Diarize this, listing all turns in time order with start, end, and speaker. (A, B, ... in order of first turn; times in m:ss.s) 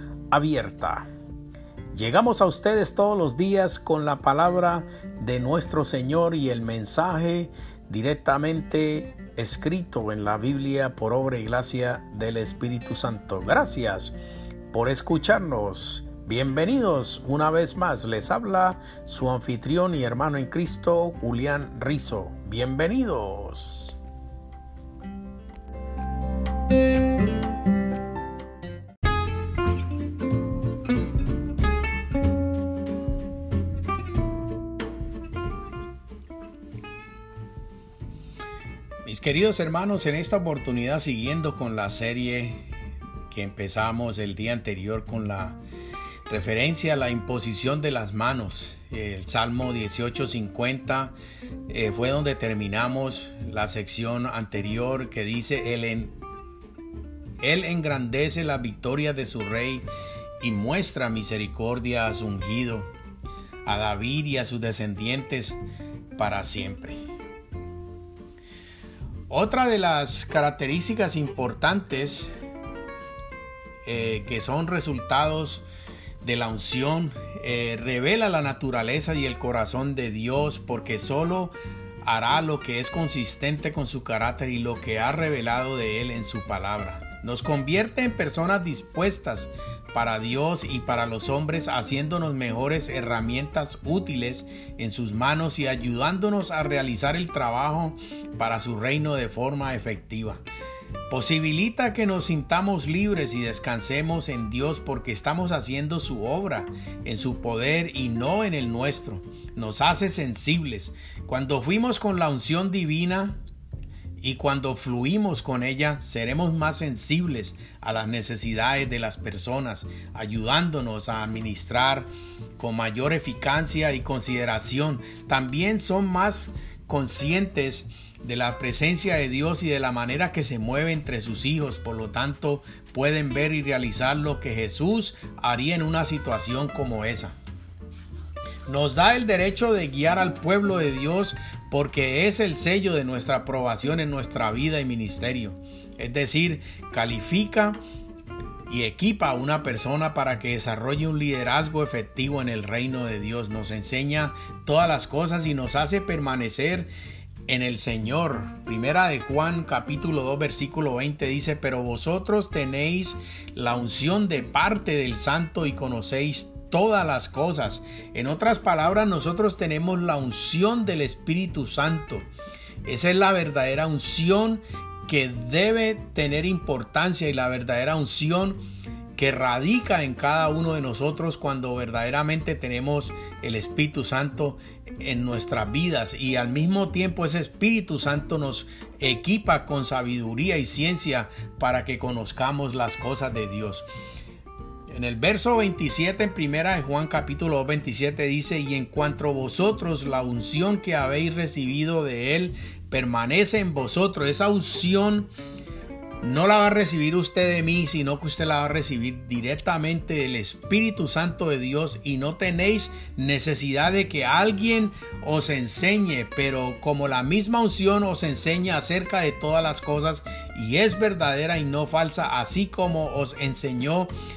0:00.3-0:01.1 A
0:01.9-0:14.2 A
0:14.7-0:24.0 A
0:39.0-0:42.6 A
0:43.3-0:45.6 A
0:46.3-0:51.2 A
0:51.7-0:56.1 A
0:57.4-0:59.9 A
1:00.4-1:02.9 A
1:03.6-1:05.6 A
1:06.2-1:07.0 A
1:09.3-1:12.3 A
1:13.8-1:15.6 A
1:16.2-1:40.4 A
1:41.1-1:53.4 A
1:54.2-2:02.1 A
2:02.6-2:17.4 A
2:18.7-2:27.8 A
2:28.7-2:36.9 A
2:37.5-2:52.3 A
2:52.8-2:58.6 A
2:59.2-3:13.9 A
3:14.9-3:25.3 A
3:26.2-3:44.1 A